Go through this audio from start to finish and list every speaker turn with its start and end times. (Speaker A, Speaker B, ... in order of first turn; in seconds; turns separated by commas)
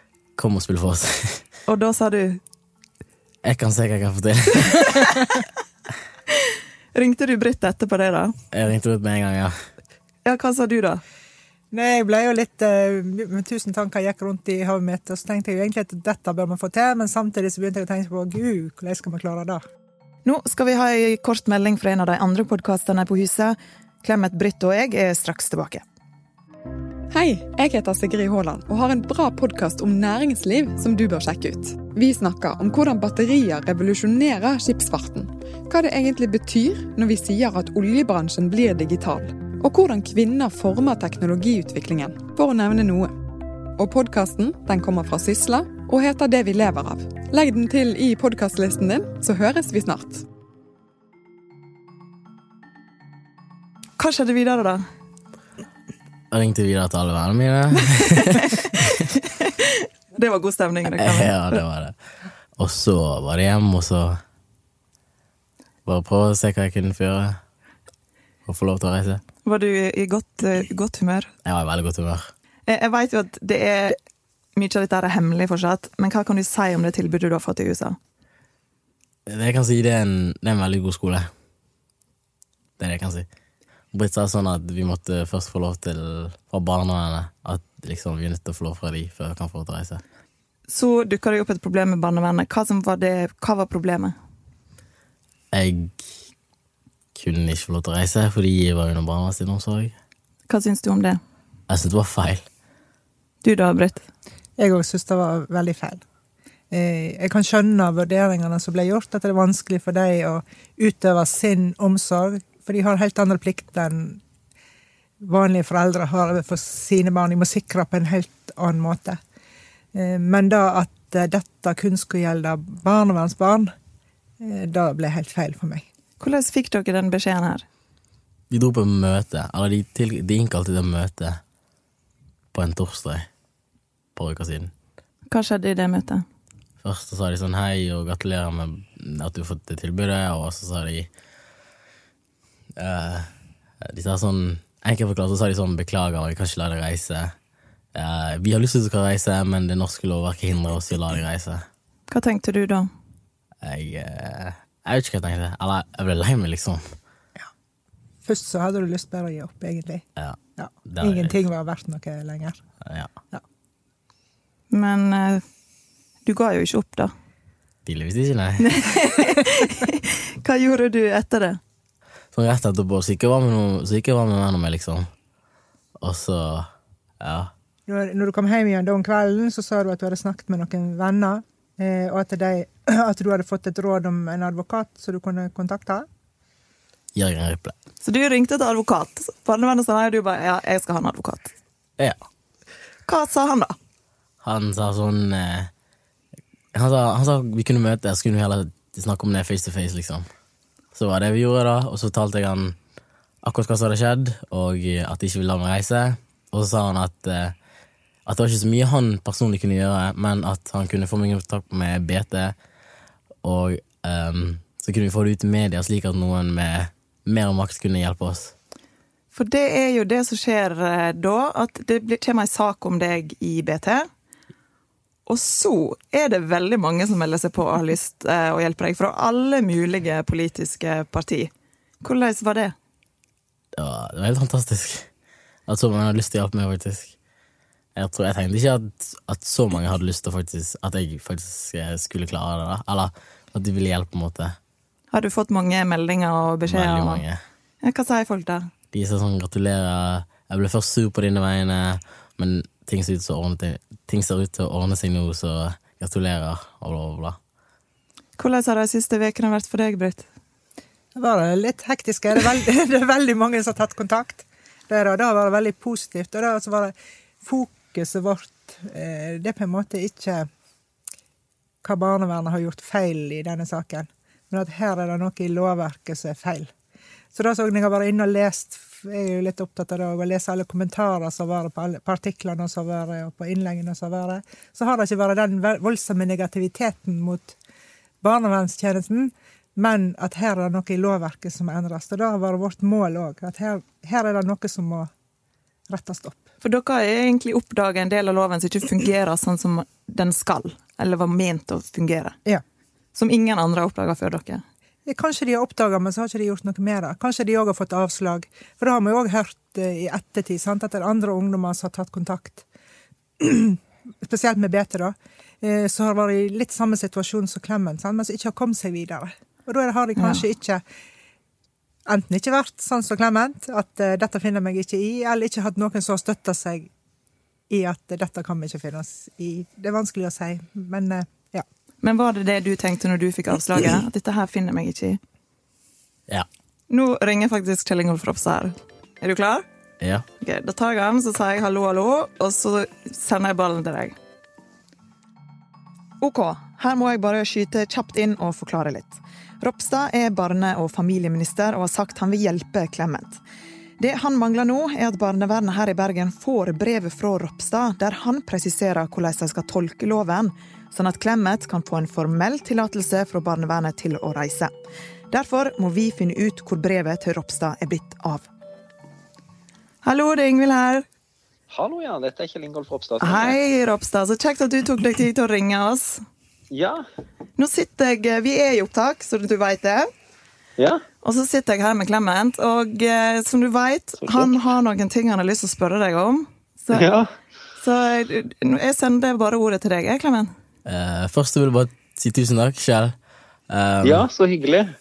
Speaker A: 0.4-1.4, Speaker B: 1.7-2.4, Speaker A: 3.4-5.2, Speaker B: 6.3-8.4, Speaker A: 8.5-9.5, Speaker B: 10.2-11.0, Speaker C: 11.7-19.6, Speaker D: 20.2-25.8, Speaker E: 27.1-43.2, Speaker E: 43.8-50.2, Speaker B: 54.0-54.9, Speaker A: 56.3-59.0, Speaker B: 58.4-61.4, Speaker A: 60.9-62.0, Speaker A: 62.6-64.2, Speaker A: 65.9-67.4, Speaker A: 68.5-69.2, Speaker B: 69.4-71.3, Speaker A: 71.5-72.3, Speaker B: 72.7-74.0, Speaker B: 74.6-78.0, Speaker A: 79.3-81.3, Speaker A: 82.8-83.3, Speaker A: 83.9-90.0, Speaker B: 90.7-94.2, Speaker A: 95.5-96.0, Speaker A: 97.1-100.0, Speaker B: 100.5-101.2, Speaker A: 101.7-102.4, Speaker B: 103.4-104.0, Speaker C: 104.6-106.0, Speaker C: 106.7-114.2, Speaker C: 115.2-119.2, Speaker C: 119.9-123.7, Speaker C: 124.4-125.8, Speaker B: 126.2-127.7, Speaker A: 128.5-131.4, Speaker A: 132.5-133.3, Speaker A: 134.2-134.7, Speaker B: 135.3-136.2, Speaker A: 136.8-141.1, Speaker A: 142.8-143.3, Speaker A: 143.8-147.3, Speaker A: 147.9-151.7, Speaker B: 152.1-152.9, Speaker A: 153.6-156.8, Speaker C: 158.2-160.1, Speaker A: 160.2-161.4, Speaker C: 160.6-162.6, Speaker B: 164.7-165.4, Speaker B: 166.2-167.1, Speaker A: 167.8-168.7, Speaker B: 168.6-171.6, Speaker A: 172.3-175.1, Speaker A: 176.0-176.7, Speaker A: 177.2-177.5, Speaker C: 177.9-186.1, Speaker A: 187.2-187.8, Speaker B: 188.0-191.5, Speaker B: 193.1-193.8, Speaker A: 194.4-195.7, Speaker A: 196.7-200.2, Speaker A: 200.9-202.8, Speaker A: 203.4-207.6, Speaker A: 208.3-212.6, Speaker A: 213.4-218.5, Speaker B: 219.3-224.0, Speaker B: 225.3-231.5, Speaker B: 232.0-232.7, Speaker A: 233.8-235.1, Speaker A: 235.7-237.1, Speaker A: 238.0-244.6, Speaker B: 245.1-247.2, Speaker A: 246.7-247.4, Speaker B: 247.8-248.7, Speaker A: 248.9-257.4, Speaker B: 258.4-260.3, Speaker C: 261.1-270.5, Speaker C: 271.8-276.7, Speaker C: 277.3-287.6, Speaker C: 288.2-295.1, Speaker C: 295.9-296.5, Speaker B: 296.6-302.4, Speaker B: 303.1-304.6, Speaker C: 305.1-312.6, Speaker C: 313.4-320.8, Speaker C: 322.1-326.9, Speaker C: 327.7-331.6, Speaker B: 332.0-335.2, Speaker B: 336.9-339.6, Speaker B: 340.4-344.1, Speaker D: 346.2-353.4, Speaker D: 354.0-364.7, Speaker D: 365.3-368.5, Speaker B: 370.1-371.1, Speaker F: 371.7-373.6, Speaker B: 373.2-376.2, Speaker F: 376.7-377.0, Speaker B: 377.6-380.1, Speaker B: 381.2-387.1, Speaker F: 384.2-384.7, Speaker F: 386.9-387.3, Speaker B: 387.8-390.5, Speaker A: 390.9-393.1, Speaker A: 393.7-394.3, Speaker F: 394.0-394.9